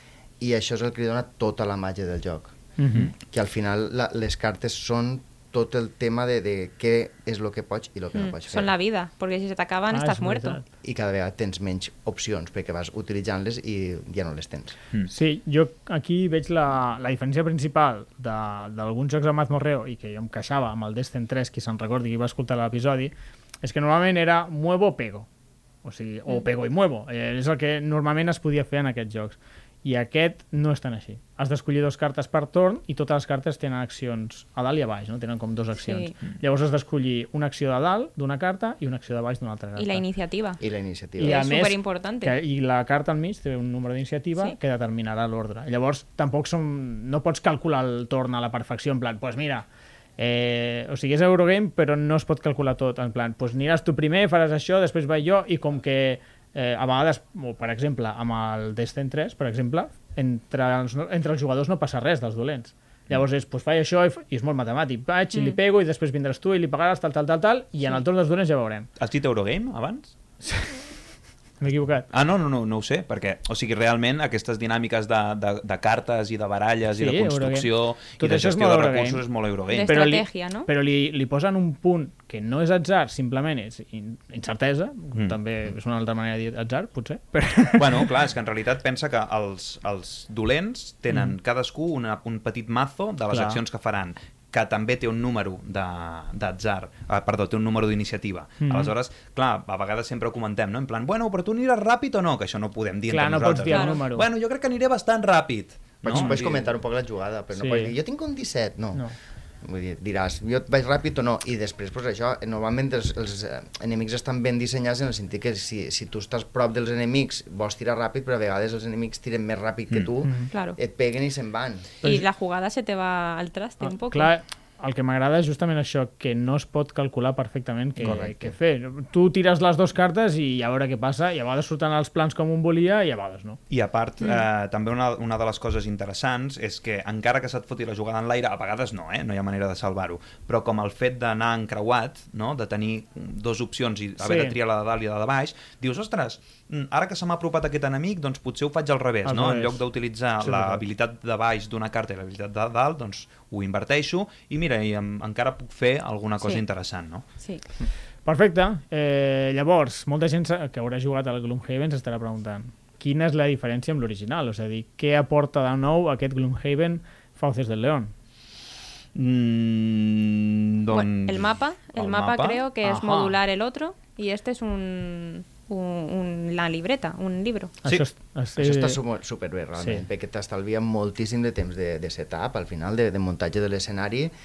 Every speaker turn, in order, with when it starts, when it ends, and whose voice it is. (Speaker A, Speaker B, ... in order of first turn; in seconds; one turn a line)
Speaker A: 0.4-8.7
Speaker B: 2.8-3.1
Speaker C: 8.1-10.6
Speaker B: 9.9-10.6
Speaker A: 10.8-14.8
Speaker B: 15.1-25.3
Speaker B: 25.8-40.0
Speaker C: 35.8-36.1
Speaker C: 39.8-40.6
Speaker A: 40.6-41.5
Speaker B: 41.2-49.6
Speaker C: 41.2-42.3
Speaker B: 50.2-68.9
Speaker D: 69.0-70.1
Speaker B: 70.5-70.7
Speaker B: 71.6-72.1
Speaker D: 72.1-80.0
Speaker B: 77.0-79.2
Speaker C: 79.7-80.7
Speaker B: 79.9-88.1
Speaker D: 87.8-106.7
Speaker B: 93.3-93.6
Speaker B: 98.6-98.9
Speaker B: 103.1-104.3
Speaker C: 103.7-104.0
Speaker A: 106.0-109.0
Speaker B: 106.1-106.4
Speaker B: 107.5-107.9
Speaker A: 109.6-121.9
Speaker B: 120.2-120.5
Speaker C: 120.5-120.8
Speaker C: 122.0-124.3
Speaker B: 123.8-133.6
Speaker A: 128.0-128.5
Speaker D: 133.7-157.2
Speaker B: 144.2-144.6
Speaker B: 149.2-149.8
Speaker B: 150.4-150.8
Speaker B: 158.2-168.1
Speaker D: 169.1-172.6
Speaker C: 170.9-177.7
Speaker B: 172.8-173.3
Speaker B: 177.8-179.0
Speaker A: 178.6-184.3
Speaker B: 179.8-180.0